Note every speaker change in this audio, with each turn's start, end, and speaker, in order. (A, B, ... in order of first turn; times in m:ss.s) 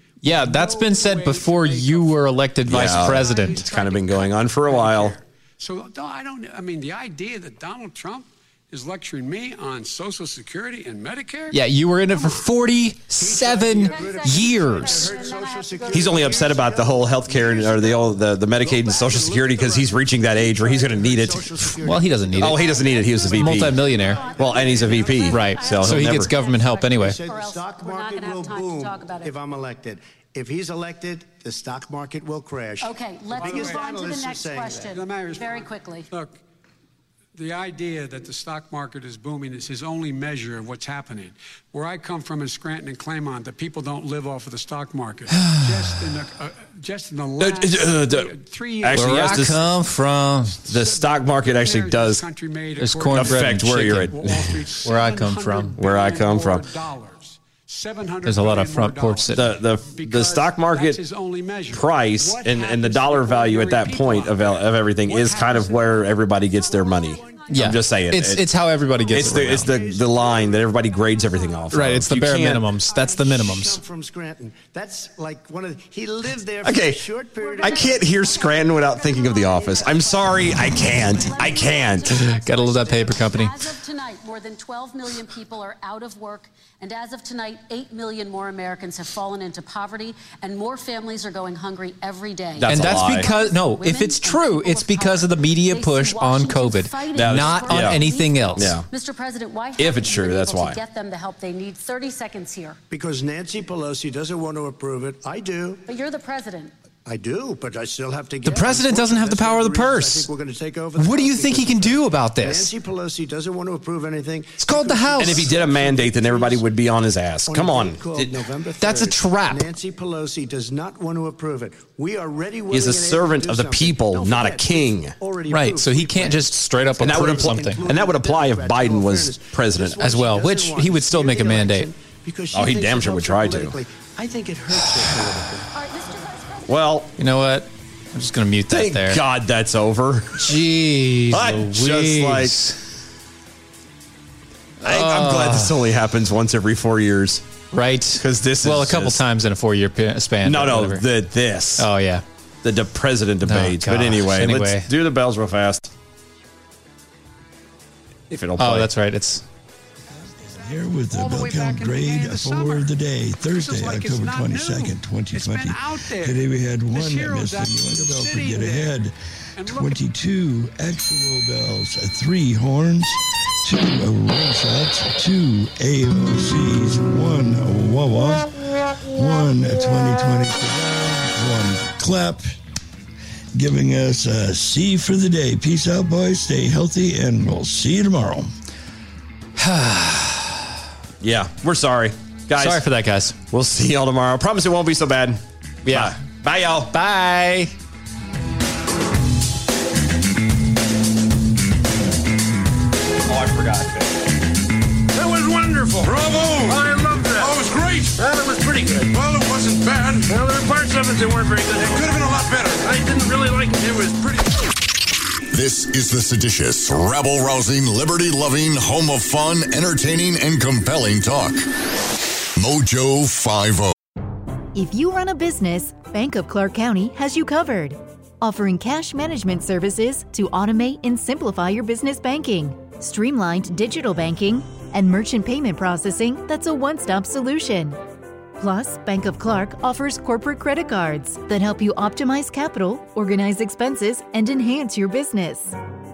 0:00.2-0:03.7 A
0:00.2-0:11.6 B
0:02.7-0:05.2 C
0:11.5-0:15.1 A
0:12.1-0:12.5 B
0:13.2-0:25.9 D
0:13.8-0:16.6 E
0:15.9-0:21.6 C
0:21.8-0:22.6 A
0:22.4-0:26.3 C
0:22.4-0:29.3 E
0:23.3-0:24.2 A
0:25.3-0:27.2 A
0:26.9-0:35.0 D
0:32.8-0:36.1 E
0:33.4-0:33.9 B
0:34.9-0:36.4 B
0:37.3-0:49.7 B
0:45.4-0:45.9 A
0:47.4-0:49.6 C
0:48.9-0:50.6 A
0:50.6-1:06.4 B
0:50.7-0:52.2 C
0:52.8-0:54.1 A
0:53.1-0:54.5 C
0:54.8-0:55.7 A
0:55.8-0:56.6 C
0:58.2-0:59.4 A
0:59.3-1:01.0 C
1:01.7-1:08.4 C
1:06.7-1:07.9 E
1:06.9-1:07.6 D
1:07.5-1:09.7 A
1:09.1-1:12.0 D
1:09.1-1:12.7 C
1:11.1-1:11.6 E
1:11.7-1:13.8 A
1:12.8-1:18.1 D
1:16.6-1:17.0 C
1:17.4-1:42.8 E
1:17.6-1:22.2 C
1:22.0-1:23.7 A
1:32.6-1:33.3 C
1:32.6-1:38.8 A
1:37.1-1:38.0 C
1:38.5-1:38.8 C
1:39.8-1:40.8 C
1:42.9-1:45.8 D
1:45.9-1:46.7 E
1:47.0-1:56.7 D
1:48.4-1:50.3 A
1:51.0-1:52.7 A
1:54.6-1:55.5 A
1:55.2-1:58.3 C
1:57.5-2:15.7 D
1:58.8-1:59.7 A
2:02.7-2:05.2 C
2:05.5-2:07.8 A
2:07.0-2:10.0 C
2:10.0-2:11.9 A
2:12.5-2:13.8 C
2:15.7-2:16.9 E
2:16.7-2:17.1 C
2:17.2-2:19.2 A
2:18.7-2:20.5 C
2:20.4-2:22.8 A
2:21.3-2:22.6 C
2:24.8-2:25.8 A
2:24.8-2:27.4 C
2:27.7-2:31.0 A
2:28.2-2:29.2 C
2:30.4-2:31.9 C
2:31.8-2:32.2 A
2:32.6-2:35.9 C
2:33.4-2:34.9 A
2:38.3-2:38.9 C
2:38.6-2:39.4 A
2:40.4-3:02.5 F
2:41.0-2:50.0 B
3:03.5-3:08.5 F
3:09.6-3:10.7 A
3:11.2-3:12.8 C
3:12.6-3:13.4 A
3:13.5-3:16.9 C
3:15.8-3:16.2 A
3:16.9-3:17.7 A
3:23.3-3:24.1 C
3:25.1-3:34.7 G
3:35.5-3:41.7 H
3:42.6-3:43.9 H
3:44.7-3:58.0 I
3:58.6-4:05.7 I